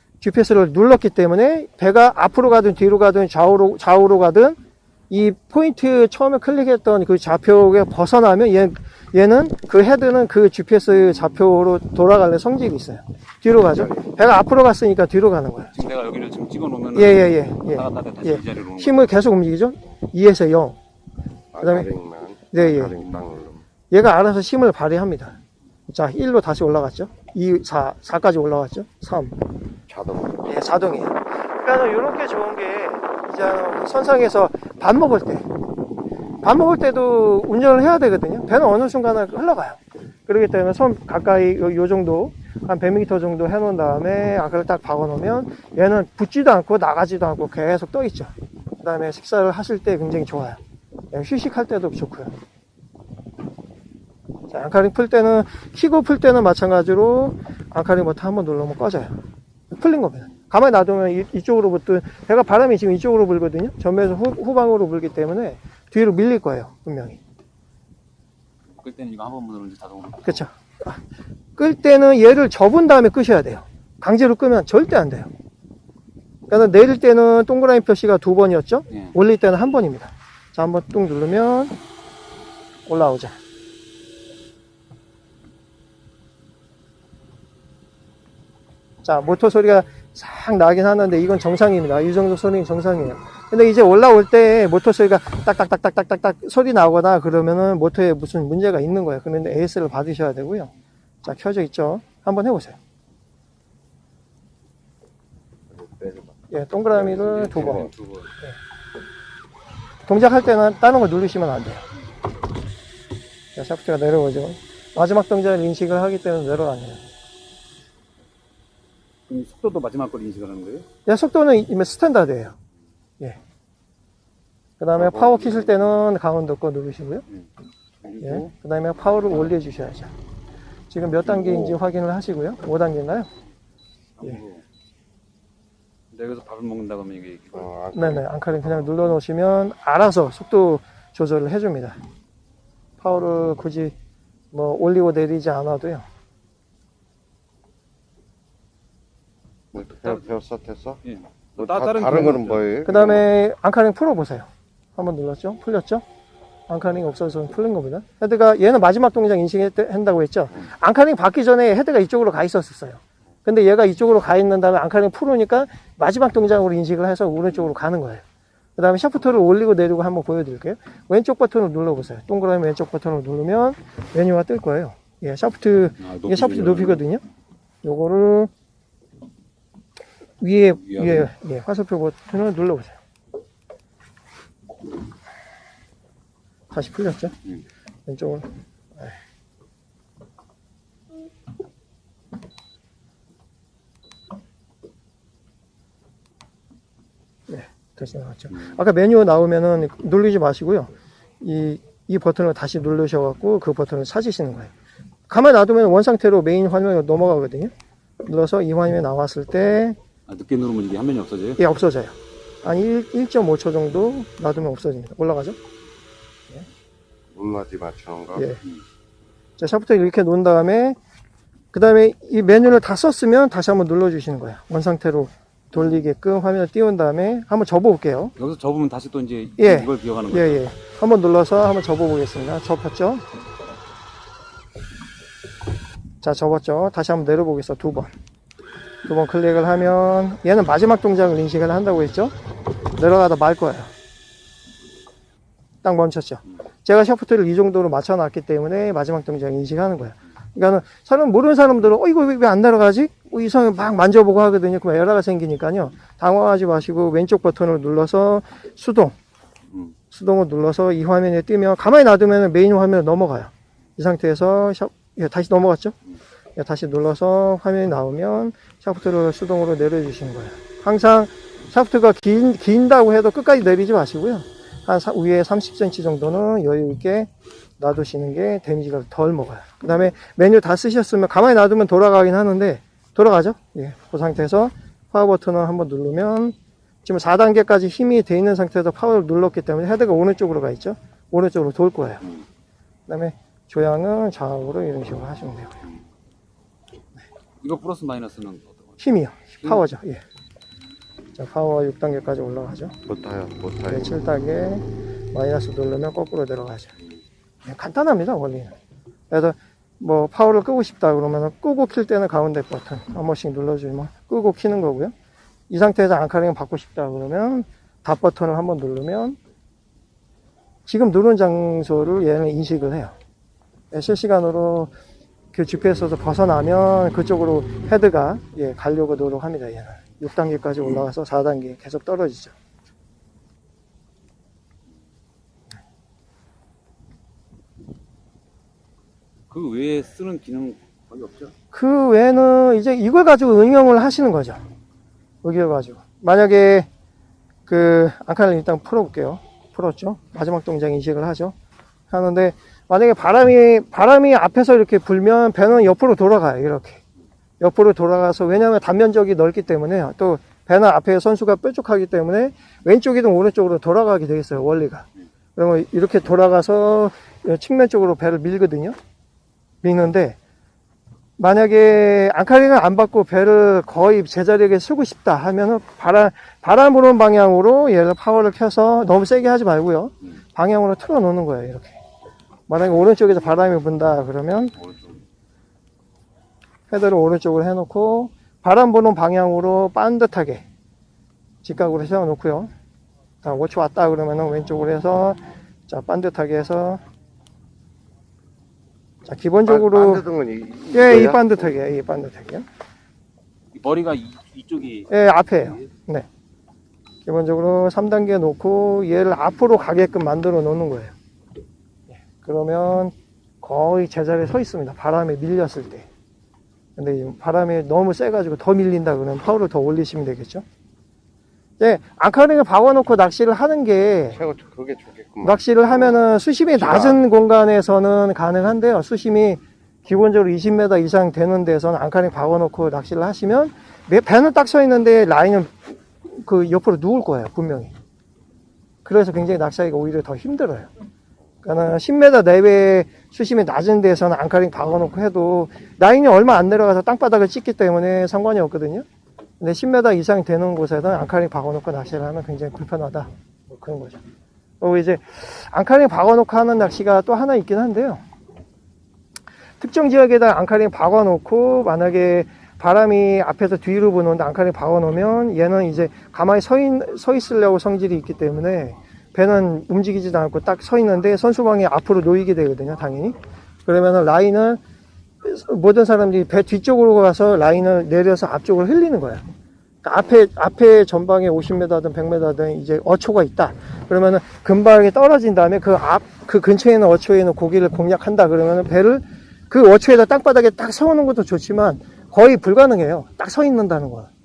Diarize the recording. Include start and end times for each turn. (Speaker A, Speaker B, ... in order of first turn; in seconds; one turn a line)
Speaker A: 0.2-4.6
Speaker A: 5.1-15.7
Speaker B: 13.8-14.0
Speaker C: 15.7-19.1
Speaker A: 16.9-20.8
Speaker B: 21.5-23.6
Speaker A: 21.6-21.9
Speaker A: 22.5-23.0
Speaker A: 23.9-29.4
Speaker B: 29.9-30.6
Speaker A: 30.4-35.5
Speaker A: 36.4-50.6
Speaker A: 51.1-52.3
Speaker A: 54.5-67.2
Speaker C: 68.7-70.4
Speaker A: 70.2-71.0
Speaker A: 71.6-75.3
Speaker A: 76.5-81.8
Speaker A: 82.8-83.3
Speaker A: 89.0-100.7
Speaker A: 101.2-102.8
Speaker B: 105.7-107.9
Speaker A: 106.5-107.9
Speaker C: 107.2-108.2
Speaker A: 110.0-111.8
Speaker A: 113.5-117.1
Speaker C: 119.3-120.8
Speaker A: 121.0-122.6
Speaker A: 124.8-127.2
Speaker B: 125.0-125.8
Speaker C: 128.0-128.5
Speaker A: 128.2-130.1
Speaker A: 130.9-133.3
Speaker B: 131.3-131.8
Speaker C: 134.2-134.6
Speaker C: 136.1-137.7
Speaker B: 137.5-138.2
Speaker A: 137.9-142.0
Speaker A: 143.0-143.9
Speaker A: 144.5-146.0
Speaker B: 149.7-151.0
Speaker C: 151.0-152.6
Speaker B: 151.6-153.3
Speaker A: 152.8-156.0
Speaker A: 156.7-168.2
Speaker A: 168.8-177.2
Speaker C: 176.0-177.0
Speaker A: 177.8-178.5
Speaker A: 180.4-183.0
Speaker C: 180.8-181.2
Speaker A: 186.7-187.4
Speaker A: 188.1-189.1
Speaker A: 197.5-204.7
Speaker A: 205.3-210.0
Speaker C: 210.3-211.6
Speaker A: 211.6-215.6
Speaker B: 217.3-218.5
Speaker A: 218.3-218.6
Speaker A: 219.6-221.0
Speaker A: 221.7-228.3
Speaker C: 228.4-230.6
Speaker A: 229.6-233.2
Speaker A: 236.2-238.1
Speaker A: 239.0-242.3
Speaker A: 242.8-243.9
Speaker A: 245.8-259.1
Speaker A: 260.1-265.9
Speaker A: 266.6-292.2
Speaker A: 293.1-295.8
Speaker C: 297.6-299.0
Speaker A: 299.0-300.2
Speaker A: 301.4-303.0
Speaker B: 303.1-304.2
Speaker A: 303.9-306.9
Speaker A: 307.6-308.7
Speaker A: 309.3-315.1
Speaker A: 315.7-319.4
Speaker A: 320.9-323.1
Speaker A: 323.9-324.9
Speaker A: 325.5-332.5
Speaker C: 339.5-341.5
Speaker A: 341.7-344.6
Speaker A: 345.4-346.9
Speaker A: 347.7-351.5
Speaker A: 352.1-357.0
Speaker A: 357.6-368.9
Speaker A: 369.8-370.4
Speaker A: 371.4-382.0
Speaker A: 382.7-384.8
Speaker A: 386.9-390.6
Speaker A: 391.6-392.7
Speaker A: 393.4-397.0
Speaker A: 399.2-400.2
Speaker B: 399.6-401.6
Speaker A: 400.9-402.6
Speaker C: 403.7-405.1
Speaker A: 405.1-406.3
Speaker A: 407.2-411.1
Speaker A: 412.2-416.1
Speaker A: 417.0-420.6
Speaker A: 421.8-424.4
Speaker B: 424.3-426.2
Speaker A: 425.4-437.9
Speaker B: 426.7-427.2
Speaker A: 439.0-440.9
Speaker A: 441.6-449.0
Speaker A: 449.6-454.2
Speaker A: 454.8-458.2
Speaker A: 459.8-474.8
Speaker A: 475.4-479.4
Speaker A: 480.0-494.3